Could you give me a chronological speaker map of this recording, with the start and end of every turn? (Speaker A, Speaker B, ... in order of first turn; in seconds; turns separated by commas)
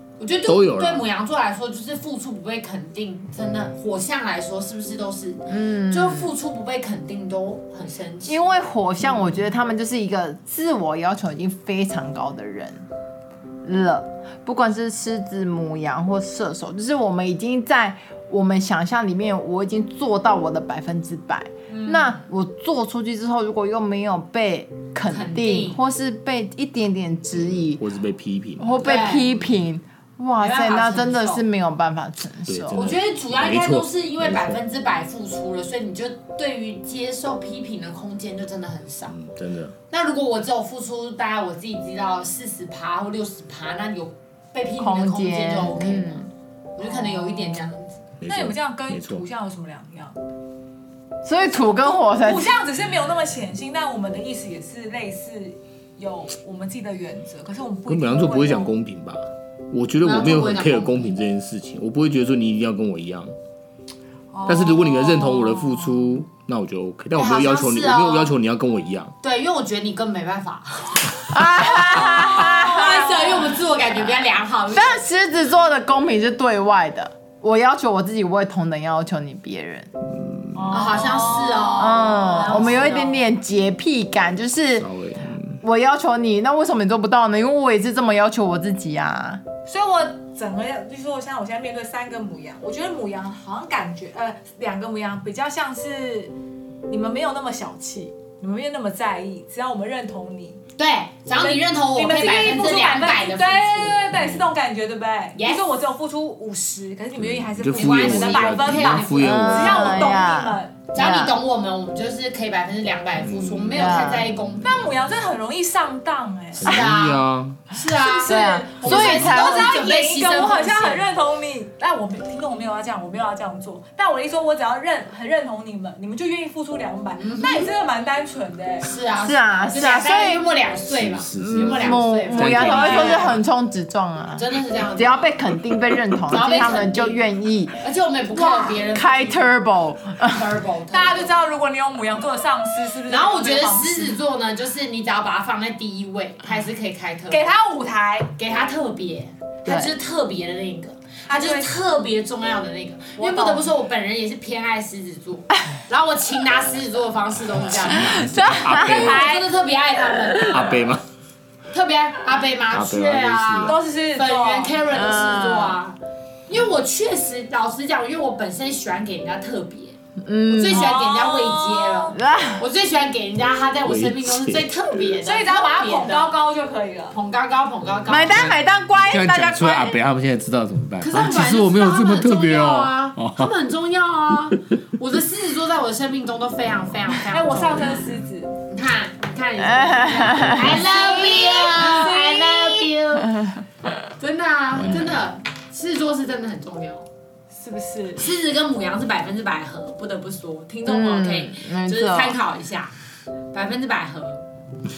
Speaker A: 0.2-8.5, Speaker B: 0.5-1.1, Speaker C: 5.5-6.3, Speaker C: 8.3-12.8, Speaker C: 13.6-27.8, Speaker A: 21.7-22.2, Speaker A: 25.1-25.8, Speaker B: 27.3-29.6, Speaker C: 28.6-32.8, Speaker A: 28.8-29.3, Speaker A: 30.4-31.4, Speaker B: 32.5-34.6, Speaker A: 32.7-39.1, Speaker B: 39.1-39.8, Speaker A: 39.9-48.1, Speaker C: 44.8-46.3, Speaker C: 46.8-47.6, Speaker B: 48.2-49.2, Speaker D: 48.2-50.2, Speaker C: 51.2-52.6, Speaker D: 52.1-58.7, Speaker B: 57.9-63.4, Speaker A: 60.0-61.1, Speaker D: 64.3-66.0, Speaker B: 64.5-69.1, Speaker A: 67.2-68.3, Speaker A: 69.2-74.9, Speaker C: 71.3-73.3, Speaker B: 72.1-72.4, Speaker C: 74.7-79.9, Speaker B: 80.1-81.0, Speaker D: 80.5-82.9, Speaker A: 80.7-83.2, Speaker C: 81.8-84.9, Speaker B: 84.8-85.6, Speaker C: 85.6-89.4, Speaker D: 89.7-96.3, Speaker D: 96.9-100.6, Speaker A: 100.8-104.1, Speaker D: 101.4-110.8, Speaker B: 104.1-104.5, Speaker A: 105.4-105.7, Speaker B: 107.2-110.2, Speaker A: 107.7-109.7, Speaker C: 109.2-111.4, Speaker A: 110.9-114.8, Speaker B: 113.2-114.9, Speaker C: 113.7-114.3, Speaker D: 114.6-116.7, Speaker B: 116.6-117.6, Speaker A: 116.6-121.1, Speaker D: 117.8-128.9, Speaker C: 118.3-119.8, Speaker A: 127.2-127.7, Speaker A: 128.8-133.4, Speaker C: 129.2-130.4, Speaker B: 130.9-133.4, Speaker C: 131.4-137.8, Speaker A: 134.4-135.3, Speaker A: 136.3-137.2, Speaker A: 137.8-139.5, Speaker C: 138.3-140.5, Speaker A: 140.3-141.3, Speaker D: 140.9-144.2, Speaker A: 143.1-147.5, Speaker D: 147.3-148.3, Speaker A: 148.4-160.8, Speaker C: 149.7-149.9, Speaker D: 151.3-151.7, Speaker D: 153.2-153.7, Speaker B: 157.6-159.4, Speaker C: 157.9-159.5, Speaker B: 160.4-161.1, Speaker A: 161.7-170.0, Speaker B: 162.7-163.8, Speaker D: 163.6-164.8, Speaker C: 164.9-165.8, Speaker C: 170.2-171.0, Speaker A: 170.5-176.4, Speaker D: 170.7-172.2, Speaker C: 172.1-172.7, Speaker B: 173.8-174.7, Speaker D: 175.2-177.2, Speaker A: 177.1-178.5, Speaker C: 178.1-180.0, Speaker B: 178.2-183.5, Speaker A: 181.0-188.1, Speaker D: 187.3-188.5, Speaker B: 187.8-188.2, Speaker A: 188.7-193.5, Speaker C: 189.6-193.9, Speaker D: 190.6-192.6, Speaker A: 194.2-197.1, Speaker B: 194.8-195.1, Speaker D: 197.5-198.3, Speaker A: 198.2-202.9, Speaker C: 200.8-202.4, Speaker A: 203.5-204.5